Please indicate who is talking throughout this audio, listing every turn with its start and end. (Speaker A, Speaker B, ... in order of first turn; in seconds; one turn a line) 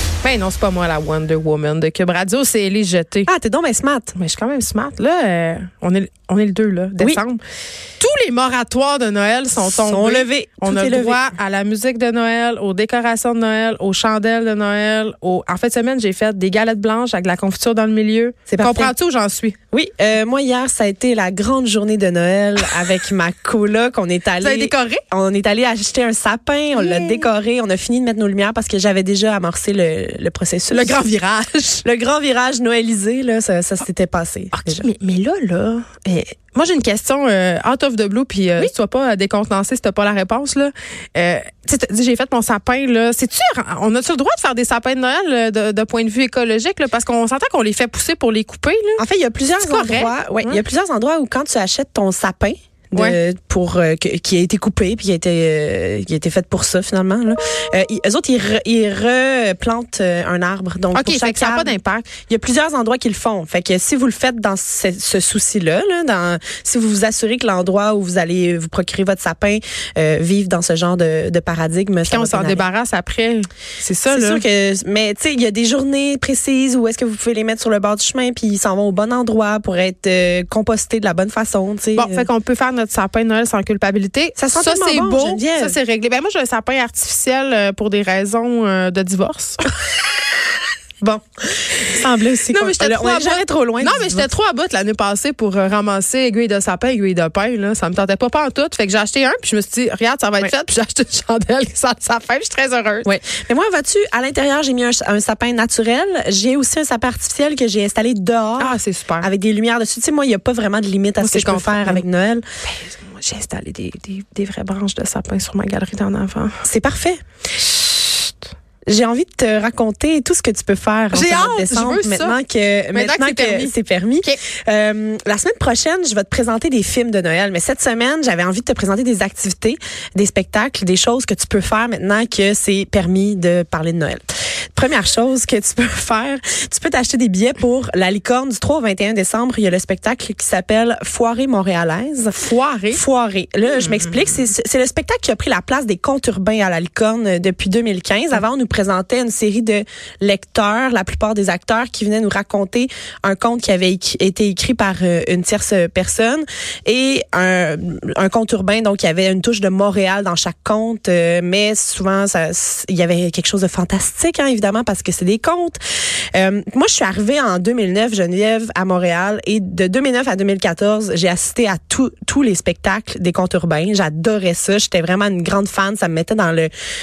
Speaker A: 0.2-3.3
Speaker B: 3.3-4.2
Speaker A: 4.2-7.4
Speaker A: 8.0-19.6
Speaker B: 9.6-11.2
Speaker B: 18.5-18.9
Speaker B: 19.7-31.1
Speaker A: 24.4-25.0
Speaker A: 26.8-27.3
Speaker A: 30.7-31.8
Speaker B: 31.8-34.9
Speaker A: 34.5-49.0
Speaker B: 49.0-61.8
Speaker A: 49.6-50.6
Speaker A: 60.9-62.1
Speaker B: 62.3-72.7
Speaker A: 72.0-74.4
Speaker B: 74.1-82.3
Speaker A: 82.0-89.7
Speaker B: 84.4-85.8
Speaker B: 91.0-94.3
Speaker A: 92.5-103.2
Speaker B: 103.0-112.4
Speaker A: 108.6-109.3
Speaker A: 111.2-112.0
Speaker A: 112.6-116.6
Speaker B: 116.6-117.2
Speaker A: 117.6-118.3
Speaker B: 118.9-165.8
Speaker A: 121.1-122.4
Speaker A: 122.9-124.4
Speaker A: 142.4-143.0
Speaker B: 166.3-176.7